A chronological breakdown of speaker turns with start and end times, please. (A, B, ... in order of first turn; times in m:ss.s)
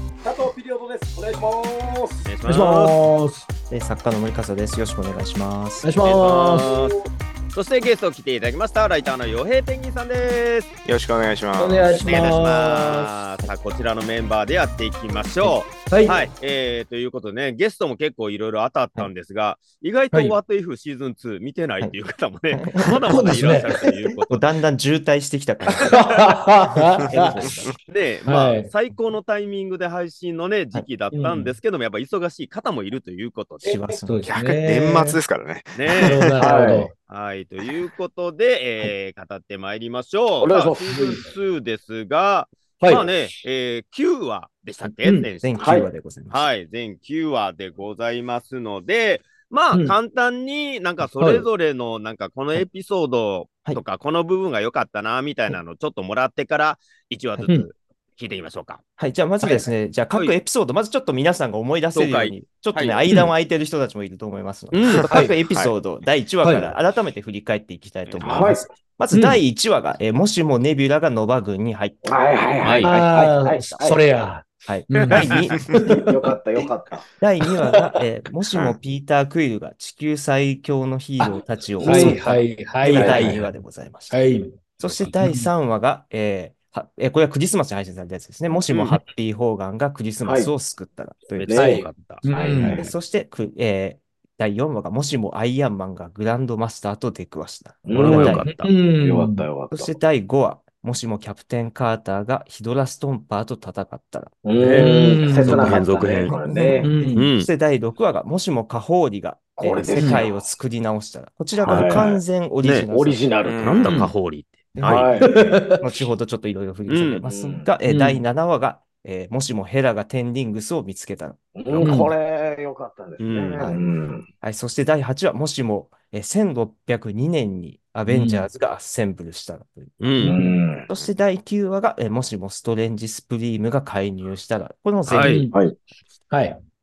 0:00.2-0:02.3 A
0:02.2-0:02.9 B
0:02.4-0:03.5 C
0:03.7-0:05.9 D
0:05.8-0:06.8 C
0:06.0-0:06.9 B
0:06.4-0:06.9 A
0:07.5-0:10.7 B
0:10.8-0:12.4 E
0:11.6-0:13.1 C
0:12.0-0:24.4 B
0:15.9-0:16.2 C
0:20.1-0:20.4 C
0:22.5-0:23.0 D
0:23.0-0:23.8 C
0:24.3-0:26.1 D
0:25.7-0:27.4 C
0:27.0-0:27.7 D
0:27.9-0:33.7 B
0:28.2-0:28.7 C
0:31.1-0:31.5 C
0:33.6-0:34.3 D
0:33.7-0:34.0 A
0:34.0-0:35.2 C
0:34.3-0:36.6 E
0:35.7-0:36.2 B
0:36.0-0:36.9 C
0:36.4-0:36.9 A
0:37.0-0:45.8 B
0:40.4-0:41.0 A
0:40.9-0:41.2 C
0:42.8-0:43.1 C
0:45.0-0:45.3 C
0:45.4-0:46.5 D
0:45.6-0:45.9 A
0:46.3-0:58.8 B
0:49.7-0:50.0 C
0:51.2-0:51.5 C
0:59.0-1:12.1 D
1:01.9-1:03.0 B
1:04.7-1:05.1 B
1:04.8-1:05.7 E
1:06.4-1:06.7 C
1:08.2-1:08.7 A
1:09.1-1:09.4 C
1:12.0-1:14.0 A
1:12.6-1:12.9 B
1:12.8-1:16.3 C
1:14.6-1:15.8 D
1:15.1-1:15.4 B
1:15.8-1:17.0 A
1:17.2-1:24.2 D
1:18.5-1:18.8 E
1:21.8-1:22.2 A
1:21.8-1:23.4 C
1:22.9-1:23.4 A
1:24.1-1:25.5 C
1:24.8-1:31.5 D
1:28.7-1:29.0 B
1:30.2-1:30.5 A
1:31.4-1:32.9 B
1:31.4-1:31.8 A
1:31.5-1:32.8 C
1:32.3-1:32.8 A
1:32.6-1:38.5 D
1:37.8-1:38.4 A
1:37.9-1:38.7 B
1:38.0-1:39.4 C
1:39.0-1:40.0 A
1:39.7-1:45.7 D
1:44.4-1:46.9 A
1:44.6-1:47.3 C
1:45.4-1:46.4 B
1:46.8-1:53.2 D
1:47.1-1:47.5 B
1:49.6-1:50.4 A
1:50.0-1:50.2 C
1:51.6-1:52.2 A
1:52.9-1:53.8 A
1:53.4-1:54.0 E
1:53.6-1:55.2 B
1:53.8-1:54.1 C
1:54.7-2:01.9 D
1:54.8-1:55.4 A
1:55.4-1:55.8 C
1:56.9-1:57.2 B
1:57.2-1:57.7 A
1:57.8-1:58.2 C
2:01.6-2:04.2 A
2:01.8-2:02.1 C
2:03.2-2:03.7 B
2:03.6-2:03.8 D
2:04.4-2:10.0 D
2:08.1-2:08.5 C
2:10.0-2:10.3 B
2:10.2-2:10.6 C
2:10.2-2:10.9 A
2:10.9-2:15.5 D
2:15.1-2:15.5 B
2:15.1-2:15.6 C
2:16.3-2:16.6 C